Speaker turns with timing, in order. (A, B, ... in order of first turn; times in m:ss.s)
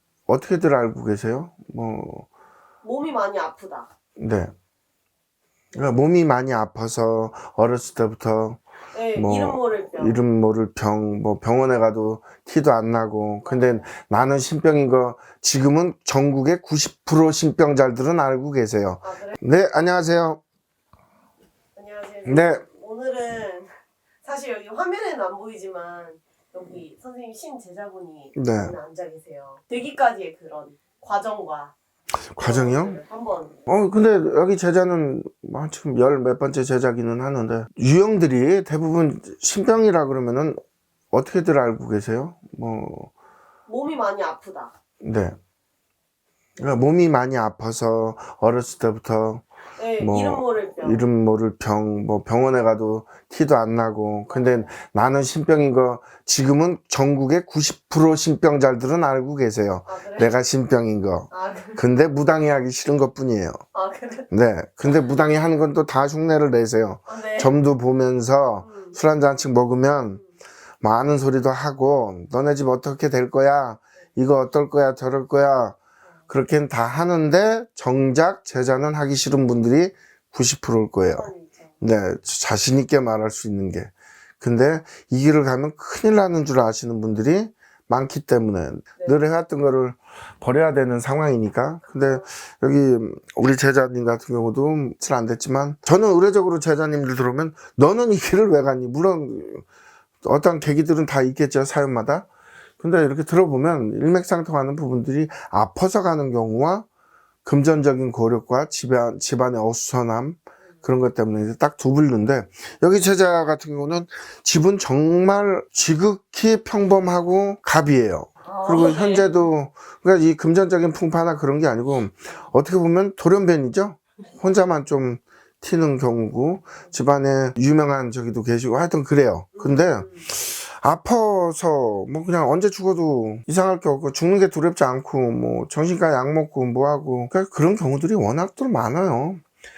0:00.3-0:02.3 A
0:02.8-0:03.9 B
0:04.2-0:04.5 A
0:05.7-0:20.4 A
0:08.9-0:10.2 B
0:13.4-0:13.9 B
0:19.0-0:19.4 B
0:21.7-0:31.7 B
0:22.2-0:22.6 A
0:28.3-0:28.7 A
0:32.3-0:33.0 A
0:32.4-0:33.7 B
0:33.7-0:40.6 A
0:41.1-0:43.1 A
0:43.7-0:44.7 B
0:45.0-0:45.4 A
0:46.6-1:03.6 A
0:49.7-0:51.1 B
0:54.2-0:54.7 B
0:59.8-1:00.4 B
1:01.3-1:01.8 B
1:03.7-1:04.3 B
1:04.3-1:10.2 A
1:07.1-1:07.6 B
1:08.6-1:09.0 B
1:10.0-1:10.3 B
1:10.8-1:15.8 A
1:16.3-1:39.6 A
1:21.1-1:21.8 B
1:29.0-1:29.2 B
1:31.8-1:32.3 B
1:40.2-1:42.3 A
1:42.8-1:46.8 A
1:47.4-2:19.4 A
1:58.4-1:59.5 B
2:09.5-2:10.3 B